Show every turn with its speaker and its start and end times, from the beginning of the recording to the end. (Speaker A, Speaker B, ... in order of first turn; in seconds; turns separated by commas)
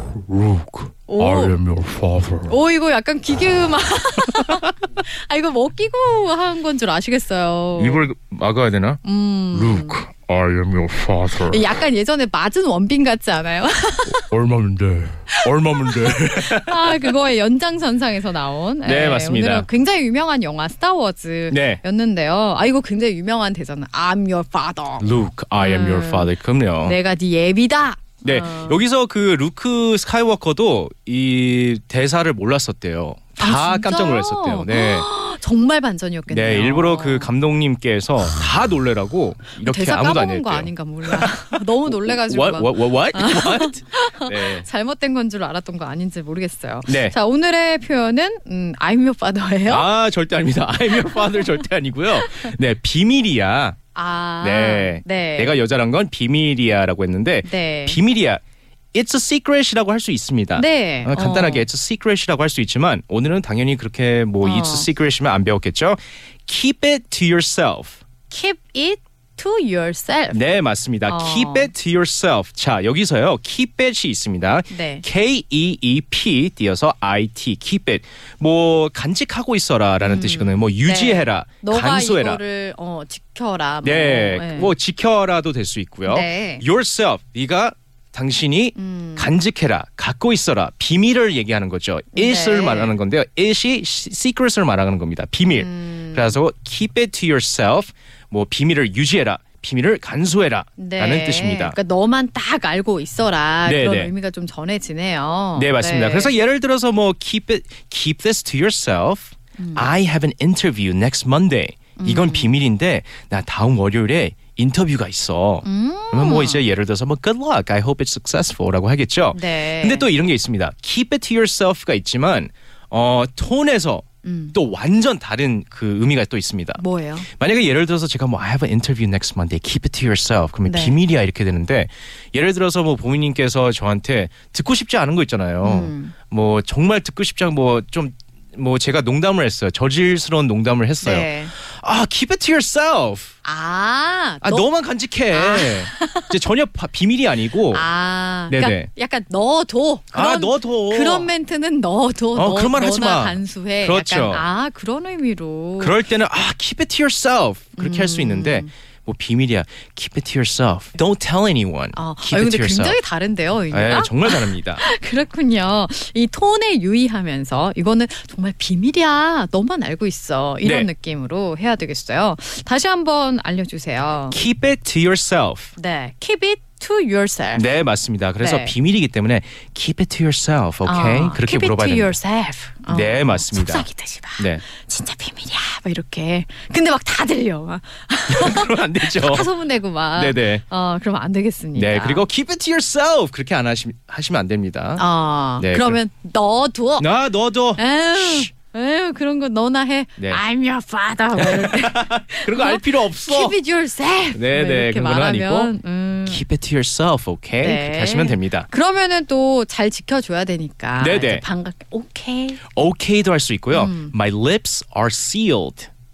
Speaker A: 0.2-2.5, Speaker B: 1.1-1.6, Speaker B: 2.5-8.1, Speaker C: 7.8-9.0, Speaker B: 9.0-10.0, Speaker A: 9.5-11.6, Speaker B: 11.4-14.3, Speaker A: 14.3-15.4, Speaker B: 15.3-25.1, Speaker C: 15.4-17.1, Speaker C: 18.9-19.7, Speaker C: 21.5-21.8, Speaker C: 25.0-27.0, Speaker B: 25.6-26.3, Speaker B: 26.9-28.8, Speaker C: 28.2-35.1, Speaker B: 33.4-37.3, Speaker C: 36.3-44.7, Speaker B: 39.6-49.9, Speaker C: 46.9-47.1, Speaker C: 49.7-53.8, Speaker B: 54.0-55.6, Speaker C: 54.4-58.4, Speaker B: 57.4-58.0, Speaker C: 58.9-68.0, Speaker B: 60.5-61.7, Speaker B: 64.4-64.9, Speaker B: 68.3-70.5, Speaker C: 70.3-82.4, Speaker B: 71.1-71.7, Speaker B: 74.7-75.0, Speaker B: 80.0-84.7, Speaker C: 83.8-101.8, Speaker B: 86.1-86.7, Speaker B: 88.8-89.3, Speaker B: 92.1-93.0, Speaker B: 95.5-96.4, Speaker B: 100.8-106.3, Speaker C: 103.7-104.1, Speaker C: 105.6-143.3, Speaker B: 109.6-109.9, Speaker B: 112.0-112.5, Speaker B: 115.6-116.6, Speaker B: 119.3-120.1, Speaker B: 124.2-124.5, Speaker B: 126.8-127.3, Speaker B: 130.7-131.0, Speaker B: 135.6-136.2, Speaker B: 141.0-141.5, Speaker B: 143.4-144.7, Speaker C: 144.4-147.8, Speaker B: 145.3-146.4, Speaker B: 147.7-156.0, Speaker C: 148.5-148.9, Speaker C: 150.1-151.3, Speaker C: 152.4-154.5, Speaker C: 155.8-163.0, Speaker B: 157.8-158.7, Speaker B: 161.9-174.4, Speaker C: 163.7-164.8, Speaker C: 170.6-170.9, Speaker C: 174.3-175.7, Speaker B: 175.8-177.7, Speaker C: 177.5-182.2, Speaker B: 178.4-178.7, Speaker B: 180.8-192.2, Speaker C: 182.9-183.9, Speaker C: 184.4-184.6, Speaker C: 188.3-189.5, Speaker C: 190.2-190.6, Speaker C: 191.8-195.1, Speaker B: 195.0-197.1, Speaker C: 195.6-196.0, Speaker C: 197.0-198.5, Speaker B: 197.8-206.4, Speaker C: 201.4-203.6, Speaker C: 204.3-205.7, Speaker C: 206.3-208.7, Speaker B: 207.6-212.7, Speaker C: 211.0-211.4, Speaker C: 212.7-215.9, Speaker B: 213.7-214.1